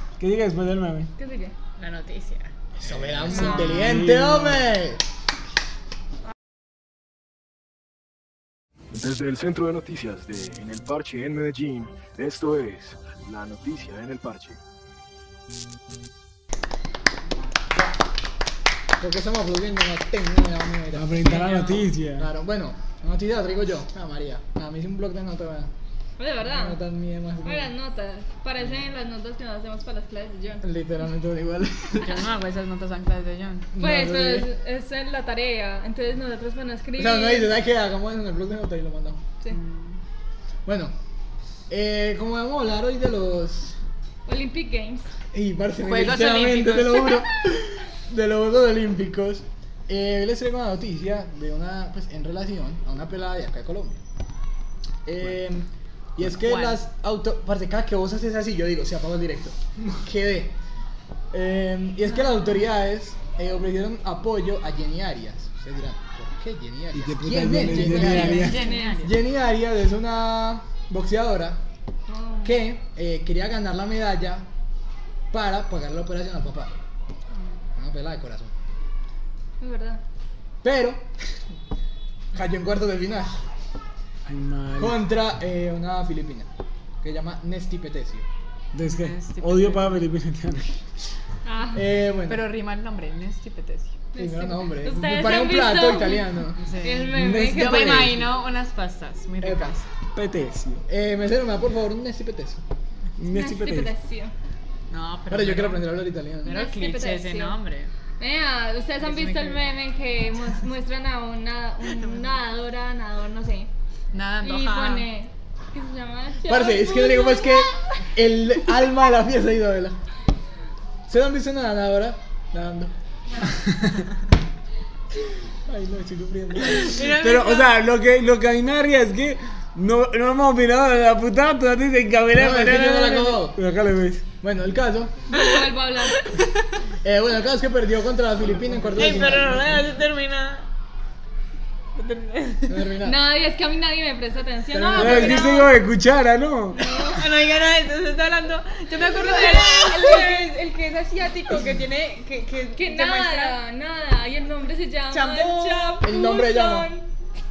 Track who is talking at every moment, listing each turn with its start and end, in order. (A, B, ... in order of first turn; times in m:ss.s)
0:00.2-0:01.1 A
0:01.2-0:01.5 B
0:01.8-0:02.5 C
0:02.8-0:05.0 D
0:02.8-0:04.7 A
0:03.3-0:03.7 B
0:08.9-0:14.6 E
0:19.0-0:21.4 D
0:20.9-0:22.3 A
0:21.2-0:21.8 C
0:22.2-0:25.7 D
0:26.2-0:26.8 B
0:26.4-0:27.7 D
0:27.4-0:30.6 B
0:30.6-0:32.2 D
0:32.0-0:33.7 C
0:33.7-0:34.5 D
0:33.8-0:37.5 B
0:37.0-0:39.2 D
0:39.5-0:40.0 C
0:40.7-0:40.9 D
0:41.7-0:43.8 D
0:44.3-0:45.1 B
0:45.3-0:54.0 D
0:45.8-0:47.2 C
0:55.0-1:00.5 D
0:56.2-0:56.8 C
1:01.3-1:11.6 D
1:06.9-1:08.6 A
1:07.6-1:09.2 C
1:08.4-1:09.0 B
1:12.1-1:12.6 B
1:12.4-1:14.5 D
1:15.3-1:16.8 D
1:17.8-1:18.5 D
1:19.6-1:20.0 B
1:20.6-1:21.2 D
1:22.3-1:23.4 D
1:24.3-1:25.0 A
1:24.8-1:26.5 D
1:27.0-1:28.3 D
1:28.7-1:30.8 A
1:28.8-1:30.0 C
1:31.4-1:31.8 B
1:31.7-1:32.4 D
1:32.3-1:34.0 C
1:34.1-1:38.1 B
1:34.2-1:36.6 D
1:36.6-1:39.9 C
1:37.1-1:38.3 A
1:39.4-1:39.7 D
1:40.2-1:40.8 A
1:40.9-1:42.6 D
1:43.2-1:43.9 A
1:43.3-1:44.3 B
1:44.9-1:47.9 C
1:45.3-1:46.5 D
1:46.5-1:47.6 B
1:48.2-1:53.7 B
1:49.0-1:49.7 C
1:52.0-1:52.3 C
1:54.1-1:55.1 C
1:54.4-1:58.0 B
1:56.4-2:00.0 D
2:01.1-2:02.9 D
2:05.7-2:07.0 D
2:06.8-2:07.8 C
2:07.0-2:14.3 A
2:12.3-2:13.6 D
2:14.4-2:15.1 D
2:15.3-2:16.2 B
2:16.2-2:16.7 C
2:17.0-2:19.8 D
2:19.0-2:20.7 C
2:22.0-2:22.9 C
2:22.7-2:23.2 D
2:23.0-2:25.7 B
2:24.7-2:25.6 D
2:25.0-2:26.9 A
2:26.7-2:27.3 B
2:27.0-2:33.6 C
2:29.2-2:30.5 B
2:32.8-2:37.1 B
2:35.1-2:36.0 C
2:36.0-2:36.9 D